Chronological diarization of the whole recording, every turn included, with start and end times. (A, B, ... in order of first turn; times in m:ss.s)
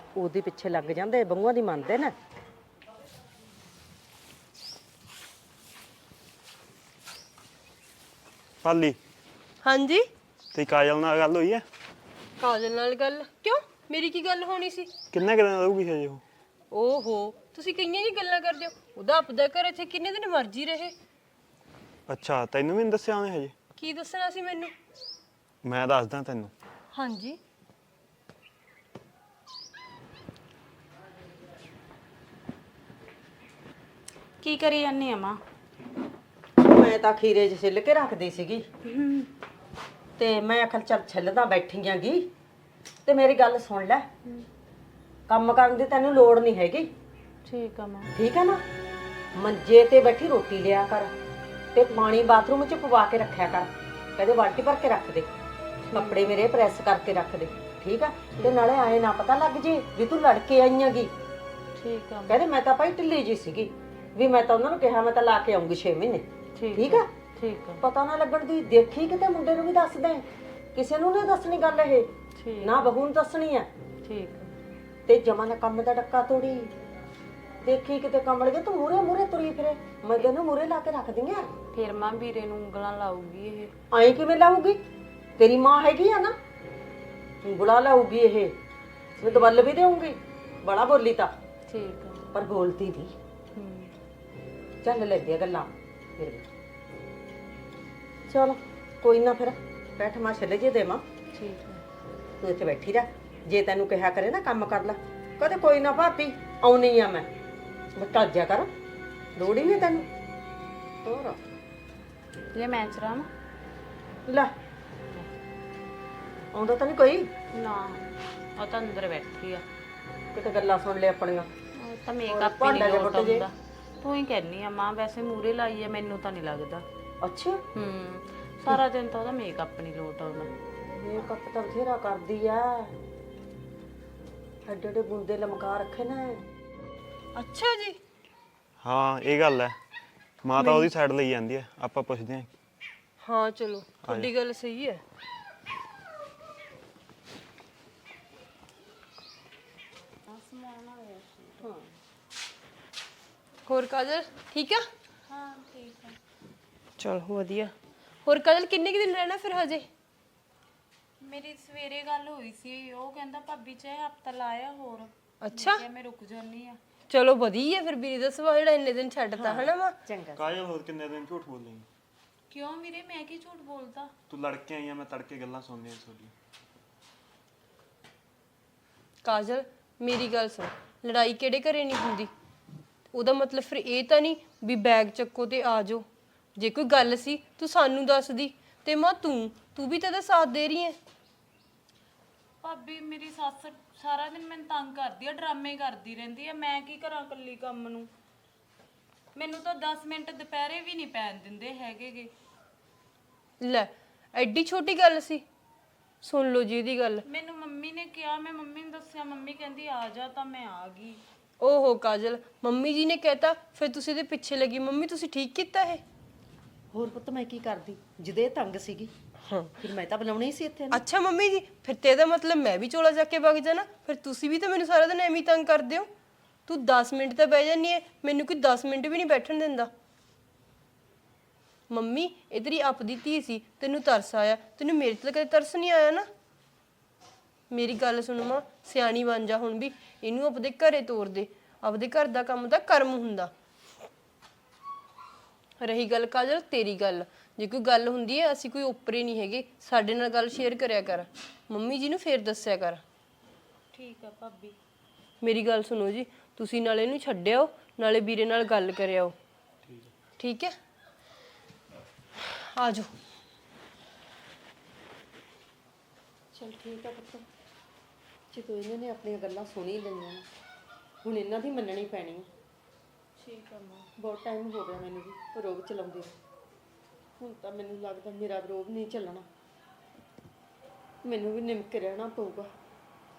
0:00.2-0:02.1 A
0:08.6-0:09.0 B
0:09.6-0:10.0 C
0:10.5-0:11.6 B
0:12.4-0:14.9 C
0:15.1-0:16.2 B
0:16.7-0:20.9 C
0:22.1-0:23.5 B
0:23.8-0:24.7 C
0:25.6-0:26.5 B
0:26.9-0:27.4 C
0:34.4-0:35.4 D
0:36.6-0:38.7 A
0:38.8-0:39.3 D
0:40.2-0:42.3 A
0:43.0-0:44.1 A
0:45.3-0:46.9 A
0:47.4-0:48.1 D
0:48.2-0:48.6 A
0:49.4-0:51.1 A
0:51.7-0:55.3 A
0:55.8-0:56.2 D
0:55.9-1:01.1 A
1:01.8-1:02.4 D
1:02.3-1:07.1 A
1:06.6-1:07.8 D
1:07.8-1:12.1 A
1:12.4-1:12.9 D
1:12.6-1:13.7 A
1:14.0-1:14.5 D
1:15.1-1:16.7 A
1:17.6-1:21.5 A
1:21.7-1:23.7 D
1:23.9-1:24.8 A
1:25.4-1:26.4 A
1:27.4-1:28.5 A
1:29.2-1:31.3 A
1:29.2-1:29.6 D
1:31.7-1:32.2 D
1:32.3-1:33.1 A
1:33.6-1:33.9 D
1:34.8-1:36.5 A
1:38.3-1:41.0 A
1:41.3-1:41.8 D
1:42.4-1:47.3 A
1:48.0-1:48.7 A
1:49.4-1:50.1 A
1:49.6-1:50.0 D
1:51.0-1:51.4 A
1:52.5-1:53.3 D
1:54.3-1:54.5 A
1:56.5-1:57.3 A
1:57.5-1:59.6 D
2:00.3-2:01.5 A
2:01.7-2:06.9 D
2:02.3-2:03.5 A
2:07.2-2:07.6 A
2:07.7-2:10.5 D
2:10.9-2:12.9 A
2:14.6-2:16.4 A
2:17.4-2:18.0 C
2:18.8-2:19.8 B
2:20.4-2:22.5 B
2:20.6-2:20.9 C
2:23.2-2:25.0 C
2:24.0-2:24.3 B
2:30.3-2:31.7 D
2:33.7-2:34.8 C
2:35.3-2:36.2 D
2:37.0-2:37.7 C
2:38.2-2:39.9 C
2:41.2-2:46.8 D
2:45.4-2:45.8 C
2:47.1-2:49.9 C
2:49.4-2:50.5 A
2:50.4-2:51.9 B
2:52.5-2:54.1 D
2:54.3-2:56.3 B
2:59.2-3:02.3 C
3:03.1-3:06.0 C
3:06.6-3:11.0 C
3:12.6-3:18.1 D
3:19.4-3:22.3 D
3:23.6-3:25.4 C
3:26.2-3:27.2 C
3:27.2-3:31.2 D
3:31.6-3:36.0 C
3:36.9-3:39.1 A
3:39.5-3:39.7 C
3:39.8-3:41.0 A
3:40.9-3:46.1 C
3:46.7-3:49.9 C
3:51.9-3:56.2 C
3:57.7-4:03.5 C
4:05.8-4:13.0 C
4:13.9-4:14.8 D
4:15.4-4:19.4 C
4:20.4-4:20.7 C
4:22.4-4:23.1 C
4:26.5-4:27.5 A
4:28.5-4:30.4 A
4:31.2-4:32.5 A
4:33.4-4:34.1 D
4:34.2-4:36.3 A
4:37.4-4:39.5 A
4:41.2-4:42.7 A